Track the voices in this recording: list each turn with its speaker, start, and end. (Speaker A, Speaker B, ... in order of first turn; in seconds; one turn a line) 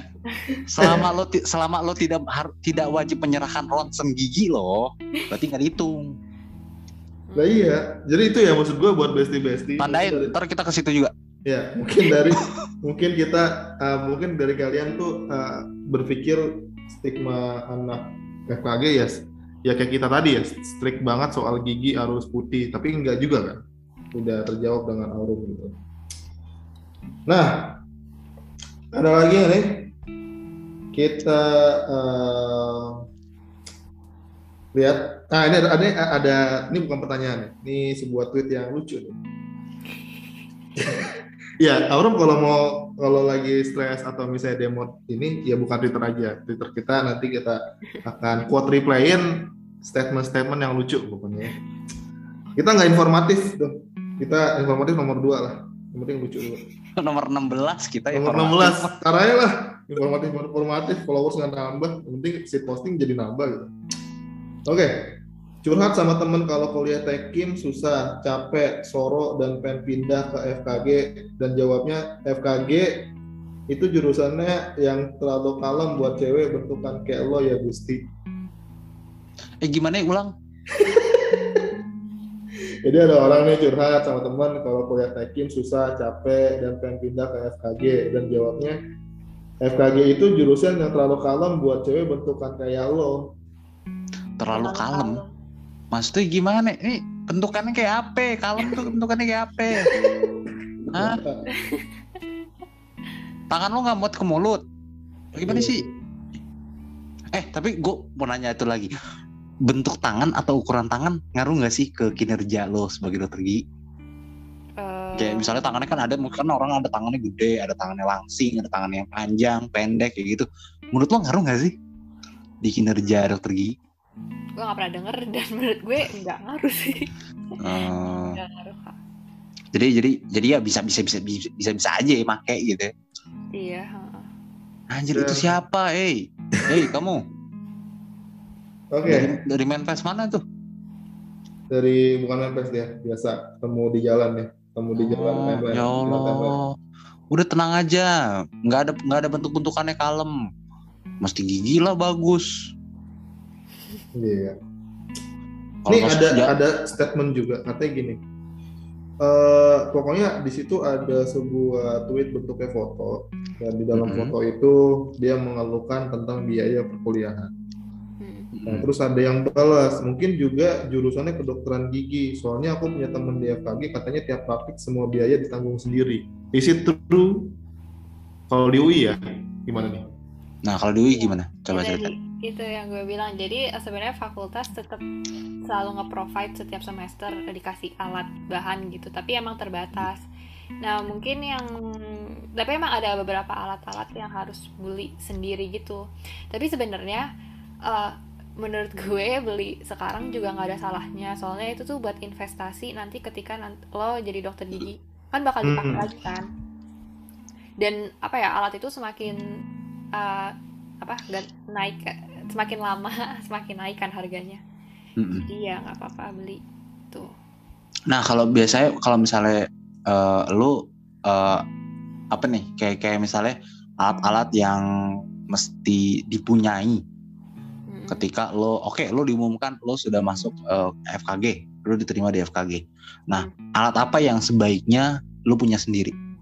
Speaker A: 0.3-0.6
Speaker B: 0.7-6.1
Speaker C: 0.8-1.1
Speaker A: 7.3-7.7
Speaker C: 7.4-10.3
Speaker B: 9.8-11.1
Speaker C: 11.5-23.6
Speaker C: 24.1-25.8
Speaker C: 27.3-27.8
Speaker C: 28.9-29.9
Speaker C: 30.9-33.0
Speaker C: 34.7-39.2
Speaker C: 40.8-51.5
Speaker C: 52.6-56.6
Speaker B: 57.0-59.0
Speaker C: 58.1-63.7
Speaker C: 64.7-73.1
Speaker C: 73.7-78.1
Speaker B: 79.6-80.3
Speaker C: 80.7-81.7
Speaker C: 82.8-88.8
Speaker C: 89.6-93.3
Speaker B: 94.4-95.2
Speaker A: 94.5-95.3
Speaker B: 95.9-100.0
Speaker C: 99.8-101.4
Speaker B: 100.9-101.2
Speaker A: 101.5-101.8
Speaker B: 103.5-104.6
Speaker B: 105.3-105.8
Speaker C: 105.5-105.9
Speaker B: 107.3-108.9
Speaker B: 109.7-113.6
Speaker A: 114.8-115.7
Speaker B: 115.2-121.7
Speaker B: 122.6-123.8
Speaker A: 124.6-127.1
Speaker B: 127.6-128.4
Speaker A: 128.3-129.0
Speaker B: 129.7-132.9
Speaker A: 133.5-134.3
Speaker B: 134.9-137.2
Speaker C: 135.1-135.6
Speaker C: 138.9-139.3
Speaker B: 139.1-140.4
Speaker C: 141.7-146.6
Speaker B: 145.0-146.7
Speaker B: 147.3-150.4
Speaker B: 151.2-152.7
Speaker C: 154.2-154.6
Speaker B: 155.8-156.5
Speaker C: 155.9-158.2
Speaker C: 159.2-167.5
Speaker B: 163.9-164.3
Speaker A: 168.2-168.5
Speaker B: 168.5-168.9
Speaker C: 168.7-177.5
Speaker C: 178.5-180.1
Speaker B: 180.6-182.1
Speaker A: 181.1-185.0
Speaker A: 185.7-190.2
Speaker A: 190.8-197.2
Speaker A: 197.8-206.5
Speaker C: 205.6-206.1
Speaker A: 207.8-209.4
Speaker A: 210.2-214.6
Speaker B: 215.2-215.5
Speaker A: 215.5-217.3
Speaker B: 218.1-221.6
Speaker B: 222.3-224.8
Speaker B: 225.5-227.0
Speaker A: 227.9-228.3
Speaker B: 228.1-236.2